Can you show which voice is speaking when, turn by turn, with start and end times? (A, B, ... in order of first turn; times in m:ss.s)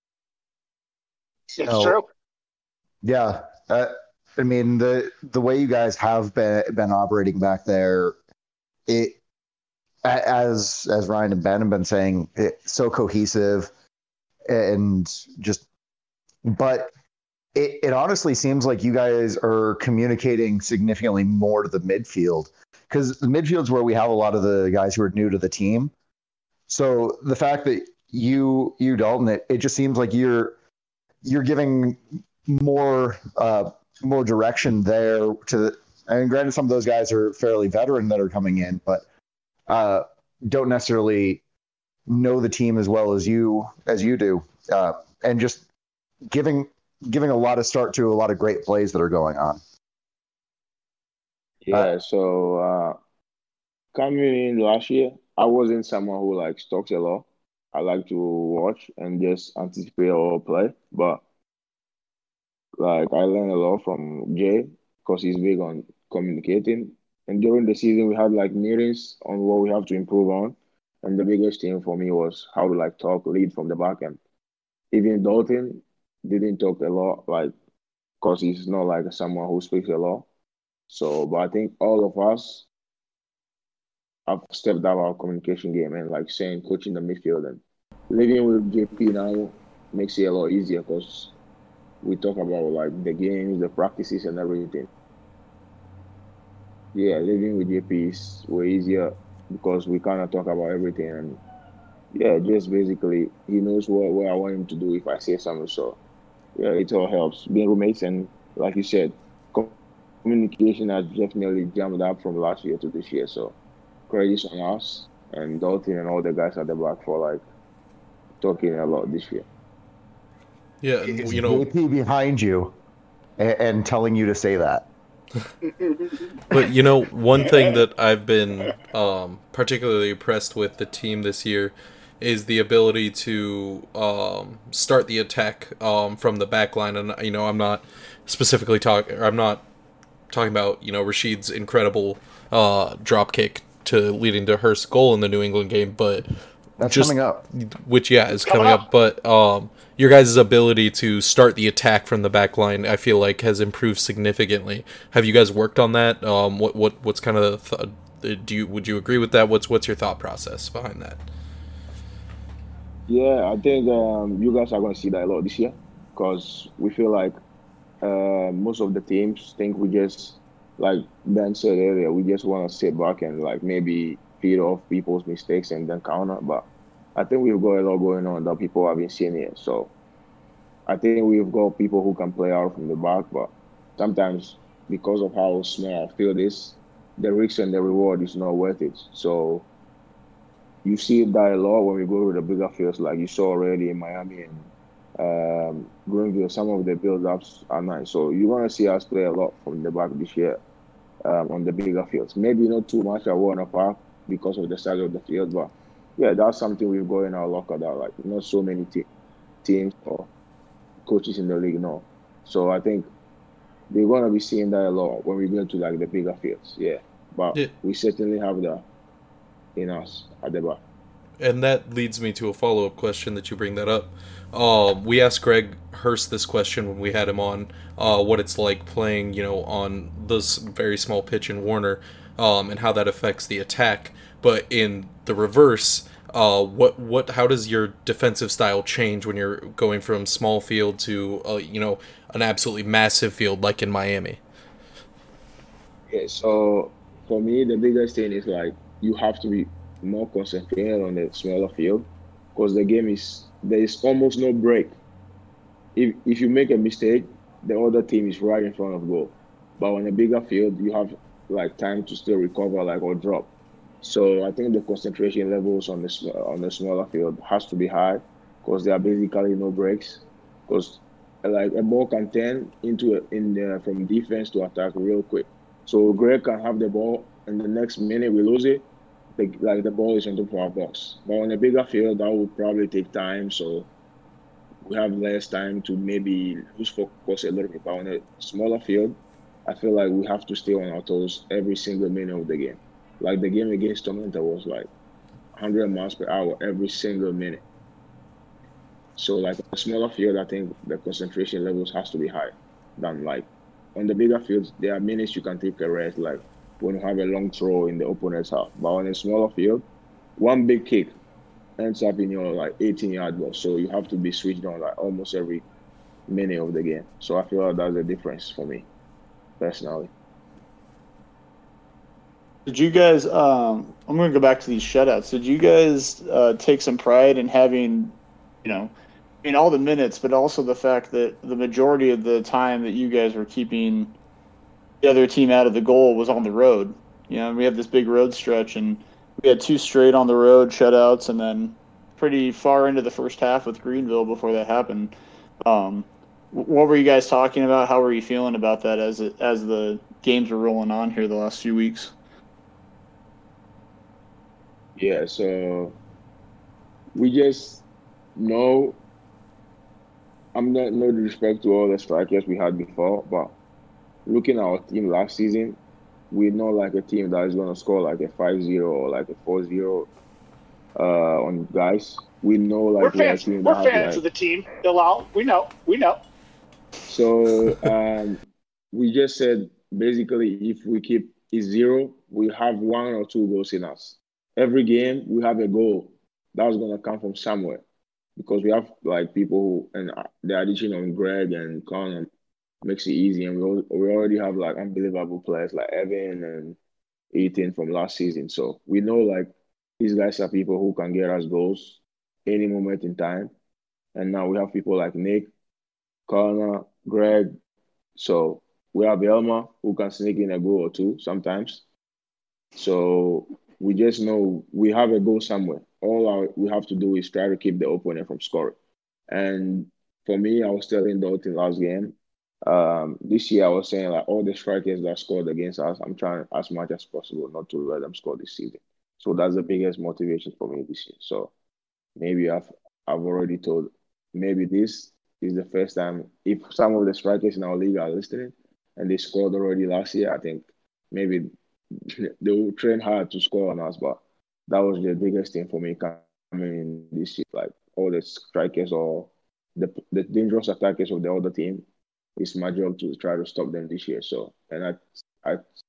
0:01.6-0:02.0 A
0:01.6-0:02.0 B
0:03.0-0:08.2 A
0:08.9-0:09.2 A
0:10.0-0:13.7 A
0:14.5-0:15.6 A
0:16.4-0:16.9 A
0:17.5-0:25.9 A
0:26.7-0:30.6 A
0:31.2-0:39.0 A
0:39.7-0:41.4 A
0:42.1-0:45.6 A
0:46.3-0:49.6 A
0:51.6-0:53.0 C
0:53.9-1:01.2 C
1:02.8-1:14.2 C
1:14.9-1:17.5 C
1:18.2-1:20.2 C
1:20.9-1:22.6 C
1:24.3-1:31.3 C
1:32.0-1:34.9 C
1:36.9-1:41.4 C
1:42.1-1:46.0 C
1:46.5-1:53.5 C
1:54.1-1:57.4 C
1:58.4-1:59.4 C
2:00.8-2:01.6 D
2:01.1-2:02.7 A
2:03.4-2:04.9 A
2:05.6-2:06.5 B
2:06.5-2:19.6 D
2:20.3-2:26.2 D
2:26.8-2:27.4 A
2:26.8-2:41.2 D
2:28.4-2:28.8 B
2:43.1-2:47.4 C
2:48.0-2:59.9 C
3:00.9-3:09.6 C
3:10.8-3:20.6 C
3:21.2-3:29.0 C
3:29.6-3:30.3 C
3:31.0-3:33.1 C
3:33.9-3:38.8 C
3:39.8-3:40.8 C
3:41.4-4:04.4 D
4:06.1-4:14.9 C
4:15.9-4:23.5 C
4:24.0-4:38.8 C
4:39.4-4:43.9 C
4:44.8-4:54.9 C
4:55.6-4:57.6 C
4:59.2-5:09.8 C
5:10.4-5:11.1 C
5:11.8-5:15.6 C
5:16.3-5:18.9 C
5:19.6-5:20.1 C
5:22.6-5:28.9 E
5:29.4-5:34.1 E
5:35.0-5:45.1 E
5:45.6-5:52.1 E
5:55.0-5:56.0 C
5:57.1-5:57.8 C
5:58.4-5:59.0 C
6:00.5-6:03.5 C
6:04.2-6:05.8 C
6:06.3-6:10.1 C
6:11.0-6:14.2 C
6:13.0-6:16.2 B
6:17.1-6:27.8 C
6:28.4-6:32.3 C
6:32.8-6:36.8 C
6:37.3-6:43.5 C
6:44.1-6:45.5 C
6:46.3-6:47.6 C
6:48.2-6:51.8 C
6:52.8-6:58.7 C
6:59.3-7:11.5 C
7:12.2-7:31.8 C
7:32.4-7:35.6 C